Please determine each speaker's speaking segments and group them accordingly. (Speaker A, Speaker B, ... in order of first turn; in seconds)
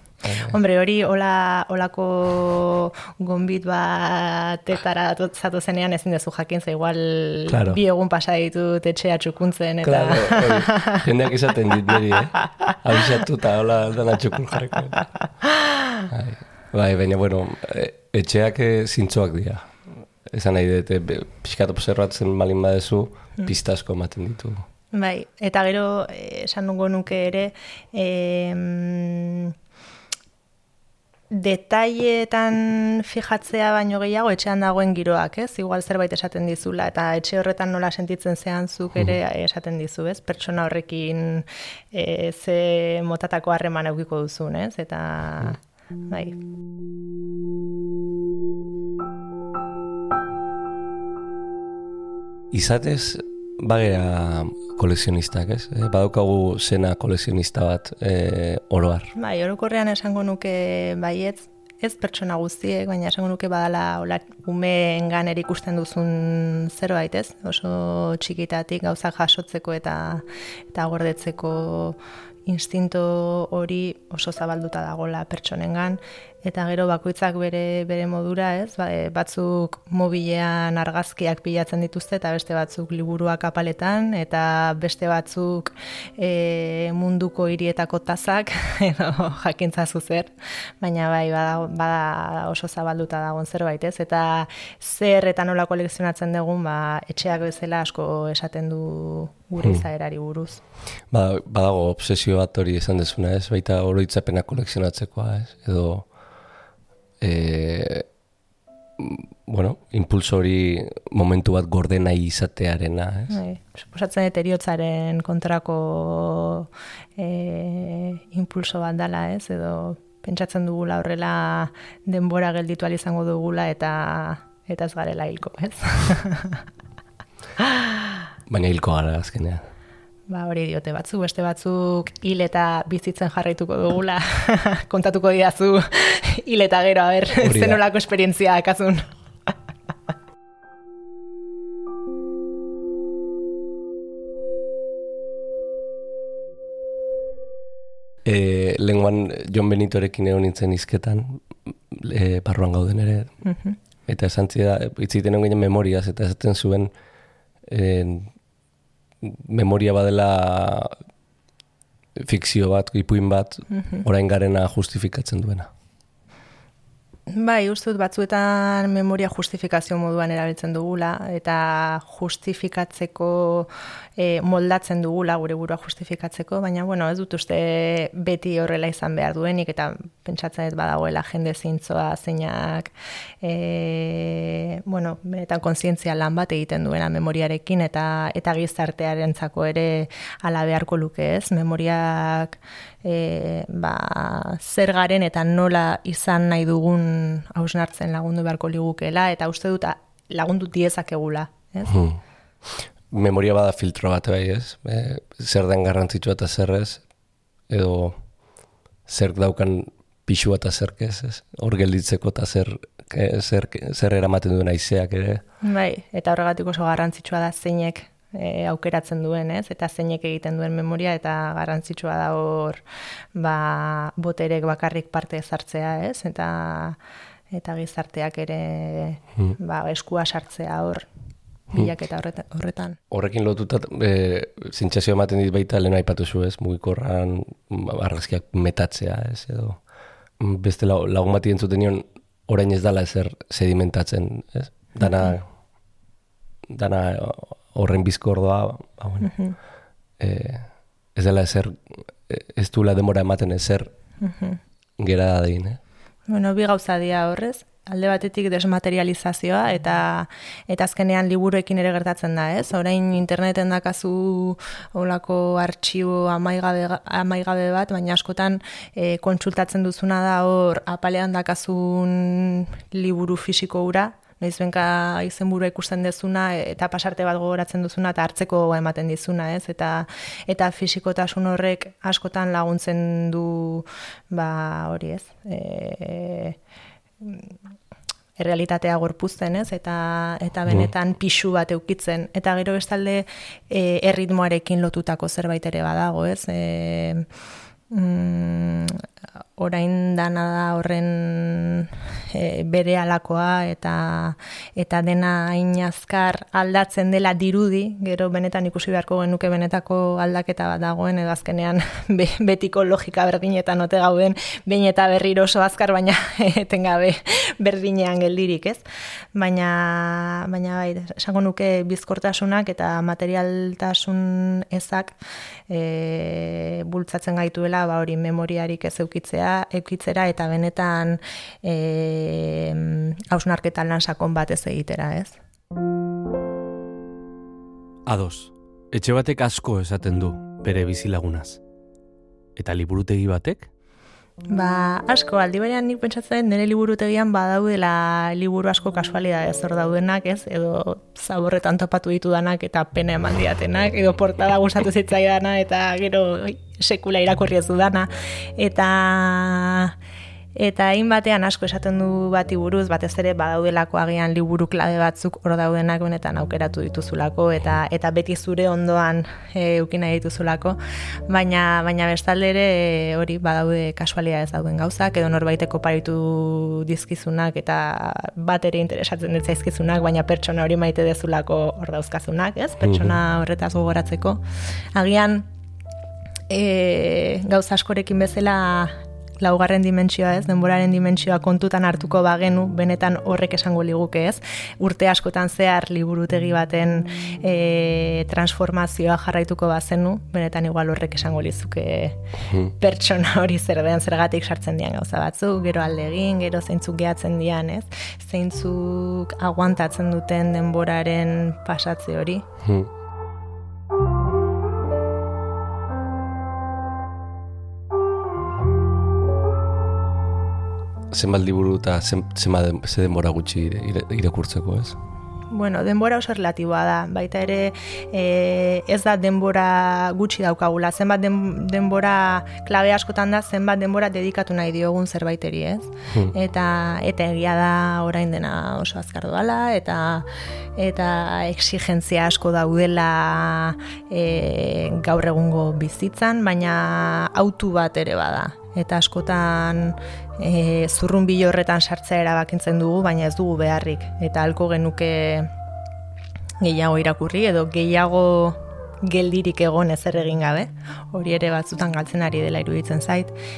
Speaker A: 0.2-0.5, 7.5-7.8, 9.8-15.1, 16.1-19.7, 20.2-24.6, 52.5-59.1, 101.1-106.1, 107.2-108.1, 109.0-113.4, 128.5-129.7, 137.4-137.8, 148.2-153.3, 154.1-156.9, 157.7-158.3, 159.2-160.9, 162.2-165.7, 201.9-207.0, 207.7-208.2, 209.1-215.4, 233.1-239.8, 240.4-245.5, 246.7-249.3, 250.2-253.9, 255.0-255.8, 382.8-383.2, 402.4-402.7, 412.6-412.9, 421.1-424.9
Speaker B: 0.2-11.0, 24.9-29.5, 31.3-46.4, 59.1-100.6, 113.3-126.6, 127.6-128.2, 130.3-139.1, 153.4-153.8, 163.7-164.0, 167.3-202.0, 215.6-222.8, 223.3-227.0, 227.5-231.1, 231.7-233.0, 249.2-249.6, 254.2-254.6, 256.3-286.6, 287.2-287.5, 288.4-297.3, 297.9-299.0, 299.6-318.8, 319.3-325.1, 325.7-335.4, 344.5-359.9, 360.5-384.4, 384.9-385.5, 386.5-412.4, 425.5-455.5, 456.6-463.4
Speaker C: 338.1-341.6, 342.6-343.7